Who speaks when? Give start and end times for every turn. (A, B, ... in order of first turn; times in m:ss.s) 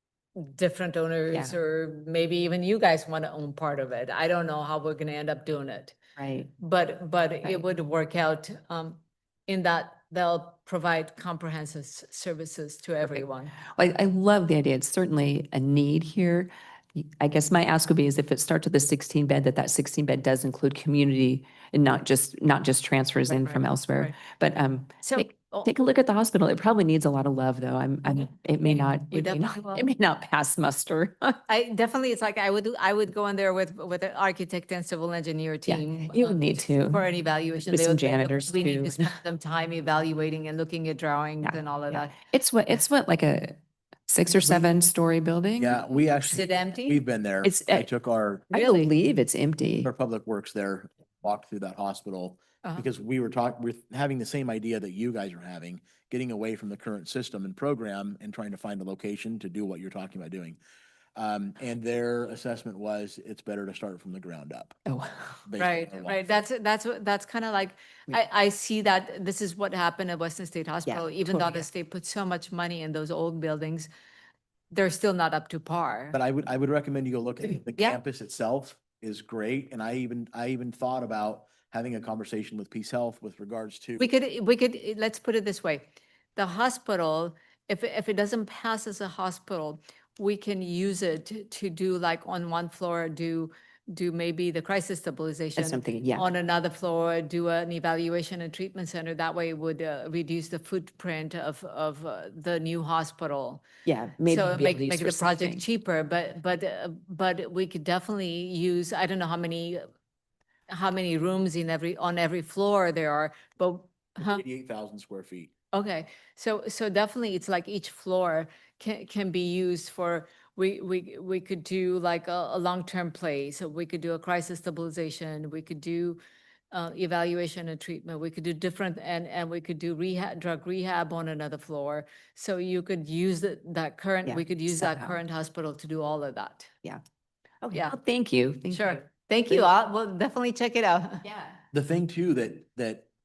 0:00.4-0:06.0 A
0:06.2-0:06.5 B
0:06.6-0:13.6 A
0:13.7-0:31.4 B
0:23.3-0:24.2 A
0:25.0-0:25.7 A
0:28.1-0:29.9 A
0:31.5-0:42.2 A
0:35.7-0:37.0 B
0:37.7-0:39.1 B
0:41.4-0:45.8 B
0:45.6-0:48.5 C
0:46.2-0:47.0 A
0:47.4-0:47.9 B
0:48.5-0:49.9 B
0:48.5-0:48.9 A
0:49.8-1:00.6 C
1:01.1-1:04.8 C
1:04.8-1:05.4 B
1:05.4-1:06.2 C
1:05.6-1:13.9 A
1:10.8-1:11.7 B
1:14.7-1:16.2 A
1:16.1-1:24.0 C
1:24.0-1:43.7 A
1:35.6-1:36.3 B
1:43.8-1:45.6 B
1:44.2-1:49.8 A
1:50.7-1:54.4 A
1:54.2-1:55.5 C
1:55.7-2:06.2 A
2:06.7-2:16.7 A
2:14.2-2:15.2 B
2:17.6-2:19.7 B
2:18.7-2:21.2 A
2:21.2-2:21.6 B
2:21.7-2:23.1 C